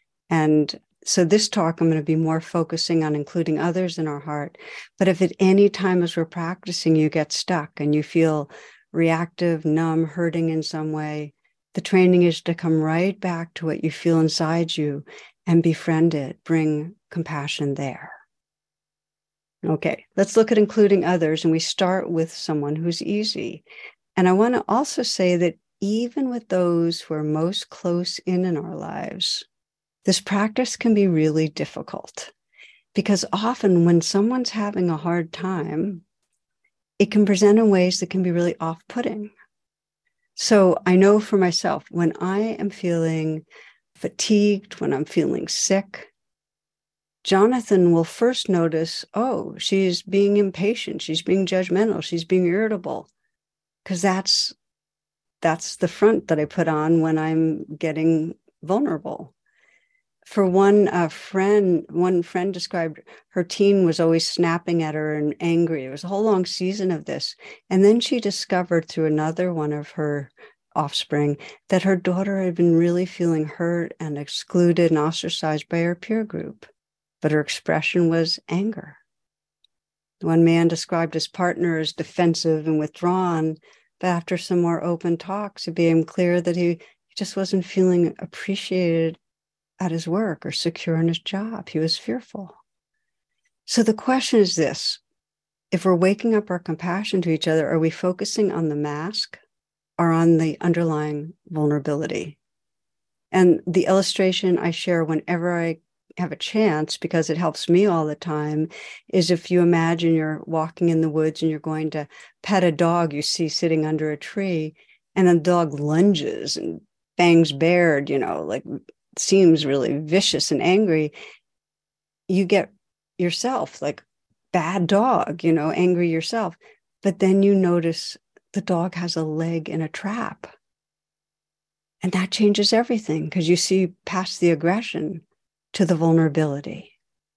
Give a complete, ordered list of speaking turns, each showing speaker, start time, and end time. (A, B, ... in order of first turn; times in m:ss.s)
0:00.3-0:18.2 A
0:19.6-0:23.6 A
0:24.2-0:29.4 A
0:30.0-0:32.3 A
0:32.9-0:36.0 A
0:37.0-0:39.3 A
0:40.4-0:43.4 A
0:44.0-0:46.1 A
0:47.2-0:53.1 A
0:53.8-0:54.6 A
0:55.4-0:59.3 A
1:00.3-1:16.7 A
1:17.2-1:19.0 A
1:20.2-1:29.2 A
1:29.8-1:32.6 A
1:33.7-1:35.0 A
1:35.7-1:39.4 A
1:40.0-1:42.4 A
1:43.3-2:01.1 A
2:02.3-2:10.5 A
2:12.0-2:16.9 A